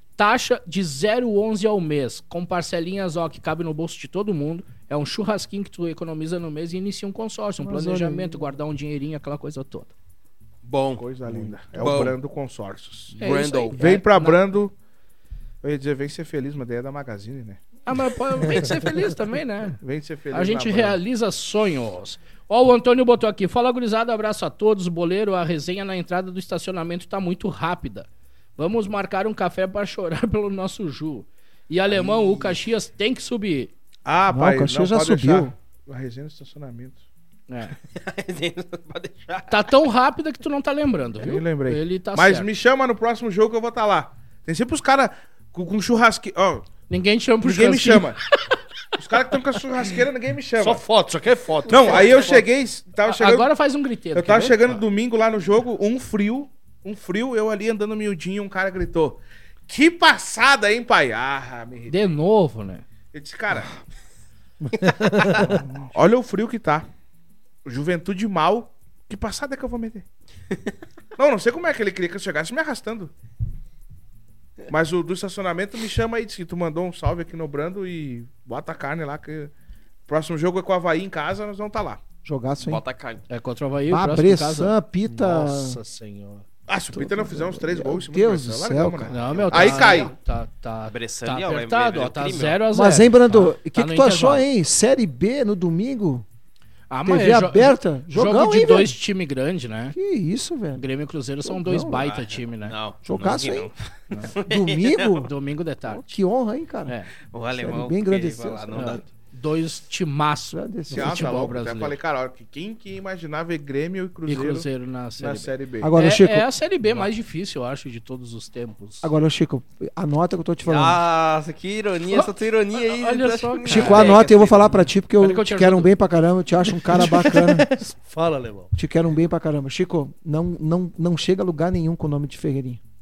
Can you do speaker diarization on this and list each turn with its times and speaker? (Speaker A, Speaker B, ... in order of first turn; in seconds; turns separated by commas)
Speaker A: 0.2-9.9, Speaker B: 7.6-8.5, Speaker C: 10.6-11.1, Speaker D: 11.0-13.2, Speaker E: 11.4-11.7, Speaker C: 11.8-12.1, Speaker A: 13.1-14.4, Speaker C: 13.2-13.8, Speaker D: 13.7-14.7, Speaker D: 15.6-17.6, Speaker A: 17.9-19.8, Speaker D: 19.8-21.0, Speaker A: 20.3-33.7, Speaker D: 34.0-37.0, Speaker B: 34.3-35.5, Speaker A: 37.5-37.7, Speaker C: 37.9-39.7, Speaker A: 39.5-42.5, Speaker D: 41.2-46.6, Speaker A: 46.9-48.6, Speaker D: 47.4-48.2, Speaker D: 49.0-50.8, Speaker E: 50.6-52.4, Speaker D: 51.7-53.5, Speaker C: 51.8-52.3, Speaker A: 53.0-54.6, Speaker D: 54.1-62.0, Speaker A: 61.9-62.8, Speaker D: 63.1-63.7, Speaker E: 64.6-65.6, Speaker C: 65.1-65.5, Speaker D: 65.4-66.8, Speaker D: 67.6-70.0, Speaker D: 71.2-73.1, Speaker D: 74.7-79.5, Speaker D: 80.1-82.0, Speaker B: 82.2-82.8, Speaker C: 82.6-83.2, Speaker A: 83.3-84.7, Speaker B: 83.9-85.8, Speaker E: 85.0-86.4, Speaker D: 86.7-90.1, Speaker B: 86.9-89.8, Speaker A: 89.1-94.4, Speaker C: 89.5-90.0, Speaker C: 90.9-92.6, Speaker B: 92.7-96.2, Speaker A: 96.9-99.9, Speaker B: 97.0-98.9, Speaker B: 99.9-100.8, Speaker A: 100.8-102.7, Speaker B: 101.4-102.2, Speaker C: 102.0-103.7, Speaker B: 103.0-103.7, Speaker C: 104.3-105.2, Speaker B: 104.4-105.3, Speaker A: 105.2-106.1, Speaker B: 105.9-107.0, Speaker C: 107.3-109.0, Speaker B: 107.5-109.0, Speaker A: 108.7-112.0, Speaker B: 110.5-111.5, Speaker D: 110.9-114.7, Speaker A: 114.3-119.1, Speaker D: 115.2-115.9, Speaker B: 115.8-116.5, Speaker B: 119.0-121.0, Speaker C: 120.6-124.9, Speaker A: 122.1-124.2, Speaker B: 123.7-127.7, Speaker A: 125.2-125.9, Speaker E: 127.1-128.7, Speaker B: 128.7-132.8